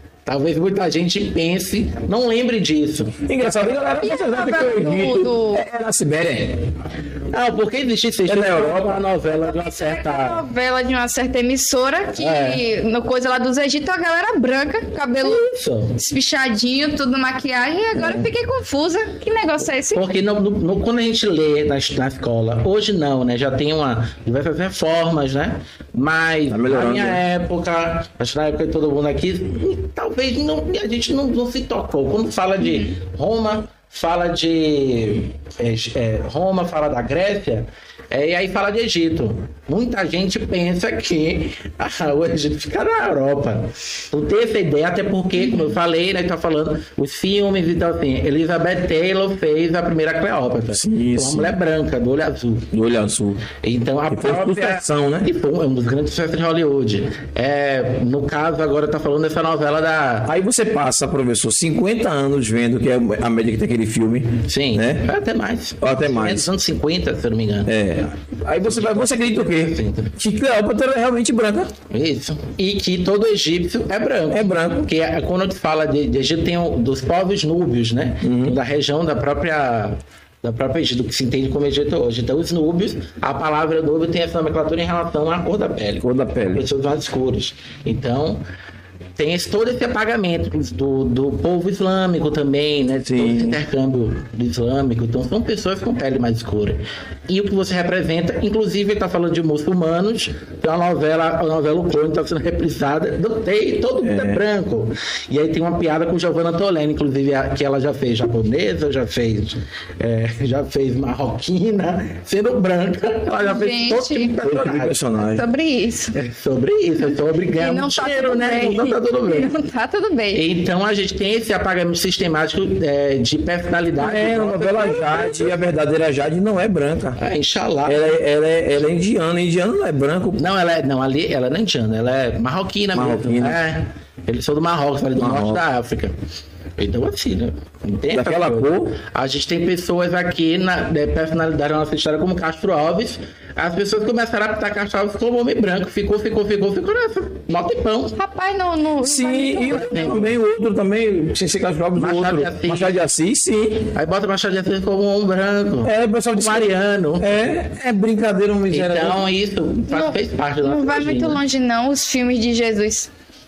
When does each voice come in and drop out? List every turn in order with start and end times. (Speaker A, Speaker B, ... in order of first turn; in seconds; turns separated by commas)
Speaker A: 0.3-3.7, Speaker B: 3.2-6.7, Speaker C: 4.0-5.6, Speaker A: 7.3-10.4, Speaker B: 8.2-9.0, Speaker C: 9.4-15.4, Speaker A: 12.2-12.6, Speaker A: 15.2-16.0, Speaker C: 16.0-20.1, Speaker B: 18.0-18.3, Speaker A: 19.9-52.7, Speaker B: 26.5-27.2, Speaker B: 50.7-51.6, Speaker B: 52.7-53.5, Speaker A: 53.6-60.3, Speaker B: 54.1-55.3, Speaker B: 60.3-65.1, Speaker A: 64.5-67.8, Speaker B: 65.8-66.5, Speaker B: 67.7-71.7, Speaker A: 68.4-70.1, Speaker A: 71.9-88.4, Speaker B: 74.3-74.8, Speaker B: 78.2-78.6, Speaker B: 86.0-86.7, Speaker A: 89.2-115.0, Speaker B: 93.1-93.6, Speaker B: 104.0-104.4, Speaker C: 113.3-114.3, Speaker B: 114.4-115.5, Speaker C: 115.2-116.2, Speaker A: 116.1-119.5, Speaker C: 117.5-120.4, Speaker A: 120.3-125.5, Speaker B: 124.0-127.2, Speaker A: 127.2-128.0, Speaker B: 127.8-130.4, Speaker A: 130.4-136.2, Speaker B: 132.9-133.6, Speaker B: 135.2-135.6, Speaker A: 136.8-148.2, Speaker B: 138.1-139.0, Speaker C: 148.2-150.1, Speaker B: 149.0-153.9, Speaker A: 149.7-150.3, Speaker A: 151.9-153.0, Speaker A: 153.9-157.3, Speaker B: 155.8-159.2, Speaker A: 158.7-161.4, Speaker C: 159.9-163.1